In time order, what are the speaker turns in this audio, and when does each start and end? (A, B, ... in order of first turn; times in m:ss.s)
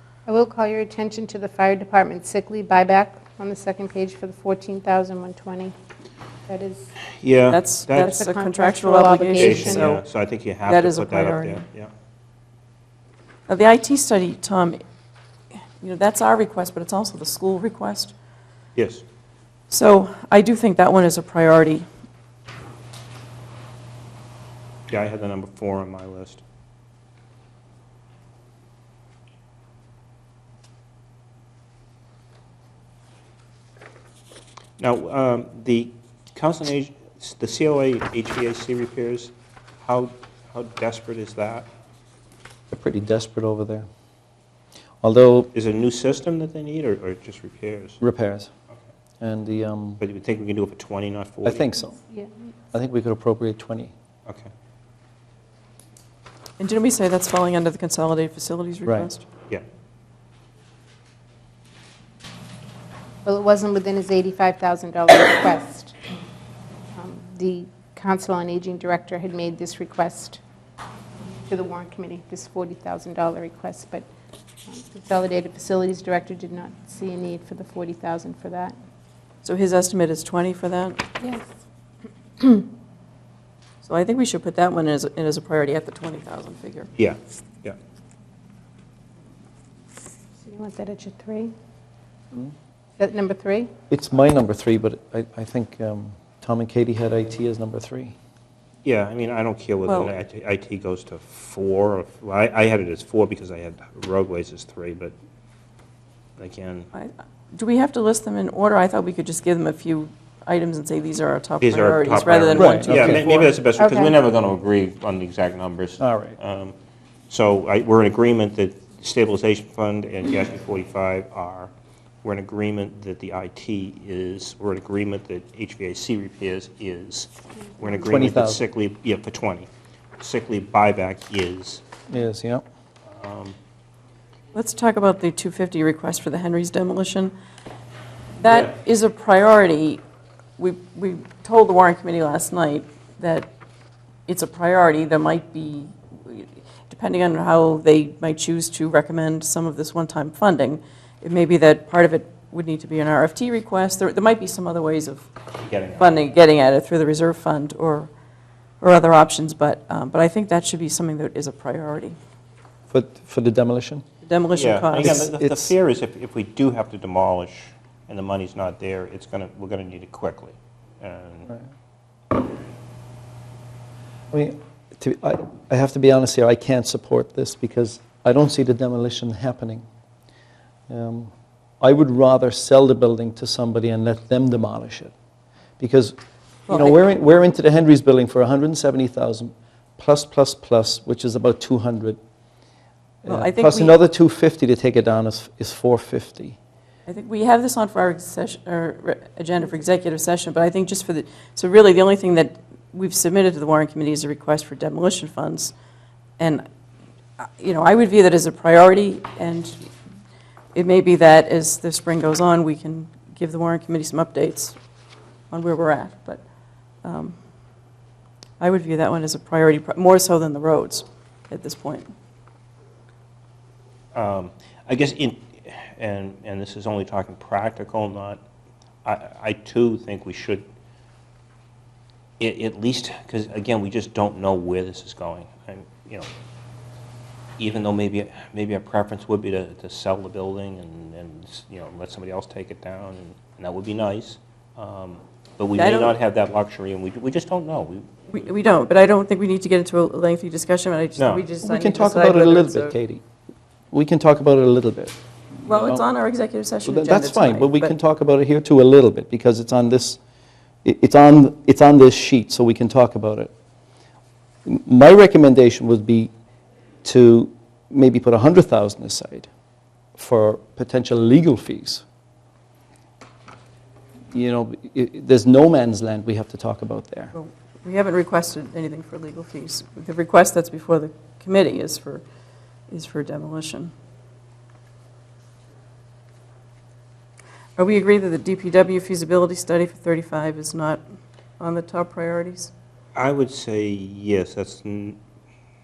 0:00.3-0:05.7 A
0:06.5-0:06.9 A
0:07.2-0:08.2 B
0:07.5-0:10.0 C
0:07.9-0:09.9 A
0:09.4-0:11.9 B
0:10.7-0:11.6 C
0:13.5-0:14.8 C
0:15.8-0:18.1 C
0:18.8-0:19.0 B
0:19.7-0:21.8 C
0:24.9-0:26.4 B
0:34.8-0:41.7 B
0:42.7-0:43.8 D
0:45.0-0:45.5 D
0:45.5-0:48.0 B
0:48.0-0:48.5 D
0:49.2-0:50.0 D
0:50.0-0:51.7 B
0:51.4-0:52.0 D
0:52.7-0:53.9 D
0:56.6-0:59.3 C
1:03.2-1:05.9 A
1:07.0-1:10.4 A
1:11.5-1:14.1 A
1:14.7-1:18.7 A
1:19.4-1:21.0 C
1:23.8-1:26.9 C
1:27.0-1:27.8 B
1:30.4-1:31.5 A
1:33.0-1:33.7 A
1:33.9-1:38.1 D
1:38.8-1:45.1 B
1:39.9-1:40.1 C
1:46.4-1:46.9 B
1:46.9-1:53.5 C
1:51.6-1:56.7 B
1:52.5-1:53.3 D
1:53.8-1:54.2 A
1:56.0-1:56.4 D
1:57.3-2:01.7 B
2:02.2-2:11.8 B
2:08.0-2:08.6 D
2:12.1-2:12.6 D
2:13.0-2:13.5 B
2:14.5-2:17.3 C
2:18.4-2:20.0 C
2:18.4-2:18.7 B
2:20.6-2:23.5 C
2:24.3-2:35.3 C
2:35.6-2:36.1 B
2:36.0-2:38.1 C
2:38.8-2:42.2 C
2:42.9-2:44.0 D
2:44.2-2:45.2 C
2:44.5-2:51.5 B
2:45.0-2:45.7 D
2:54.3-2:59.8 D
3:00.9-3:05.1 D
3:05.8-3:06.1 D
3:06.7-3:07.0 C
3:06.7-3:12.2 D
3:13.2-3:16.6 D
3:13.3-3:13.9 C
3:17.1-3:25.7 C
3:26.4-3:26.6 C
3:27.4-3:29.8 C
3:30.7-3:34.8 C
3:35.5-3:36.4 C
3:37.0-3:37.4 C
3:38.6-3:42.1 C
3:44.1-3:48.4 B
3:49.0-3:50.6 B
3:52.4-3:56.3 B
3:57.6-4:08.5 B
4:05.8-4:06.1 C
4:08.3-4:12.9 C
4:11.2-4:11.4 B
4:11.6-4:13.2 D
4:13.9-4:16.0 D
4:15.6-4:17.9 C
4:16.8-4:20.2 D
4:20.8-4:23.5 D
4:24.6-4:26.3 D
4:27.0-4:29.5 D
4:30.2-4:32.0 D
4:34.3-4:37.3 D
4:37.3-4:42.2 C
4:42.9-4:43.9 C
4:47.8-4:51.0 C
4:51.6-4:52.7 C
4:53.1-4:55.2 B